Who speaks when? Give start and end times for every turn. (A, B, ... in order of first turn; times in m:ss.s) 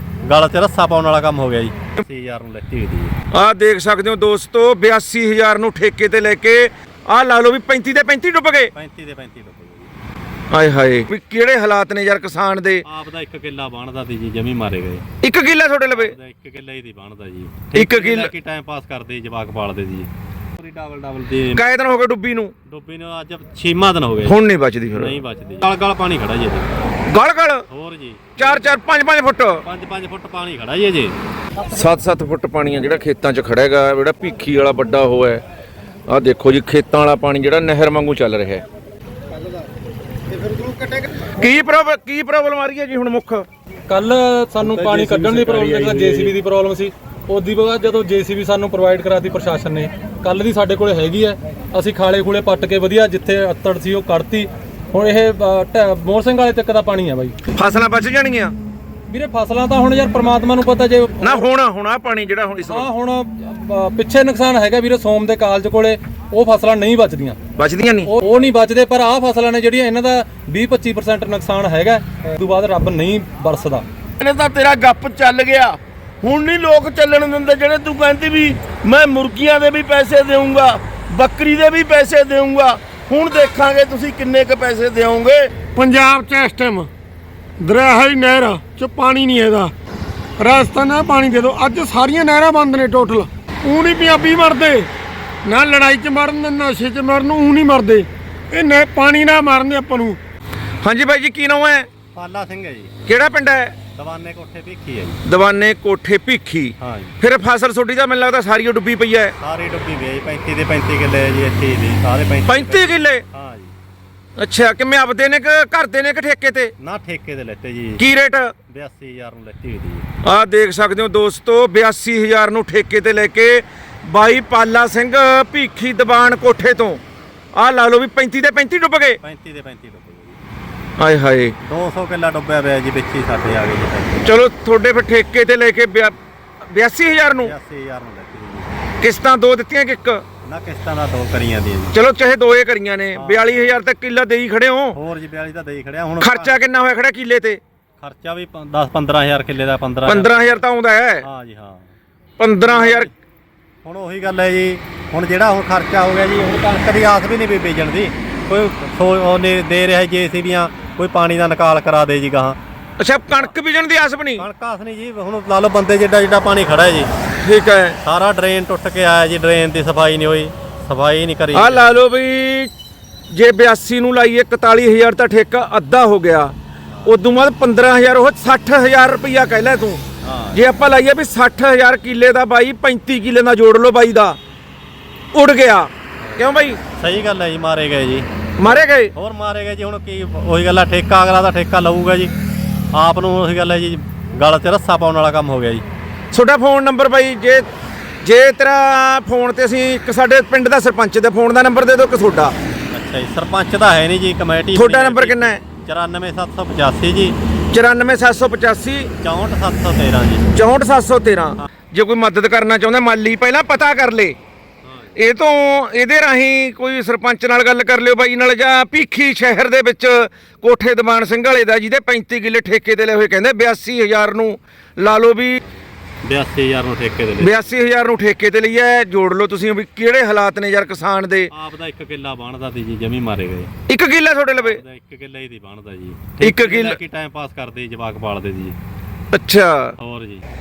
0:00.2-0:03.1 A
0:03.3-0:08.7 B
0:08.7-0:09.9 A
0:10.5-0:12.8 B
0:12.8-0:15.0 A
0:15.2-0:16.1 B
0:15.9-0:21.6 A
0:17.7-0:18.3 B
0:21.5-0:22.5 B
0:22.6-0:24.4 A
0:24.2-0:25.2 B
0:24.9-0:26.7 A
0:27.1-0:27.6 B
0:27.7-0:28.6 A
0:28.4-0:29.6 B
0:29.6-0:31.2 A
0:31.7-0:35.4 B
0:36.1-0:38.6 B
0:41.4-0:43.4 B
0:43.9-0:57.4 C
0:44.6-0:46.3 A
0:57.5-0:58.5 B
0:59.1-1:01.4 C
1:01.2-1:02.9 B
1:02.6-1:07.4 C
1:07.6-1:08.1 B
1:08.1-1:13.8 C
1:14.2-1:25.5 D
1:25.7-1:26.9 E
1:27.6-1:29.7 E
1:30.4-1:34.9 E
1:35.4-1:40.2 E
1:40.8-1:41.9 B
1:42.1-1:42.9 A
1:43.1-1:43.7 B
1:43.9-1:45.2 A
1:45.2-1:49.3 B
1:46.8-1:47.2 A
1:49.4-1:53.7 A
1:52.5-1:53.2 B
1:54.4-1:56.7 B
1:56.8-1:58.0 A
1:58.0-1:58.5 B
1:58.7-2:00.1 A
2:00.2-2:07.0 B
2:07.5-2:09.2 B
2:09.2-2:10.4 A
2:11.0-2:11.5 B
2:11.6-2:14.3 A
2:14.2-2:16.1 B
2:16.7-2:17.5 B
2:17.4-2:18.7 A
2:19.0-2:20.2 B
2:20.4-2:22.0 A
2:21.9-2:25.0 B
2:23.1-2:23.7 A
2:24.9-2:26.5 A
2:26.2-2:27.6 B
2:28.0-2:30.6 A
2:30.0-2:31.2 B
2:31.2-2:32.0 A
2:32.4-2:33.1 B
2:32.6-2:33.1 A
2:33.8-2:42.6 A
2:43.0-2:44.5 B
2:44.4-2:47.1 A
2:47.4-2:48.0 B
2:48.0-2:52.0 A
2:51.5-2:52.7 B
2:53.3-2:56.5 B
2:56.9-2:57.1 A
2:57.0-3:00.0 B
3:00.2-3:00.6 A
3:00.5-3:04.4 B
3:05.3-3:06.8 B
3:06.2-3:12.3 A
3:08.6-3:09.1 B
3:12.9-3:15.8 A
3:16.3-3:17.6 B
3:18.2-3:22.5 B
3:22.9-3:27.4 A
3:24.7-3:25.6 B
3:27.7-3:29.1 B
3:29.2-3:30.5 A
3:30.5-3:34.4 B
3:34.8-3:35.2 A
3:35.2-3:45.6 B
3:45.6-3:47.7 A
3:47.4-3:51.5 B
3:51.5-3:53.7 A
3:53.9-3:54.8 B
3:54.6-3:58.8 A
3:56.4-3:57.0 B
3:59.3-3:59.9 B
4:00.0-4:00.4 A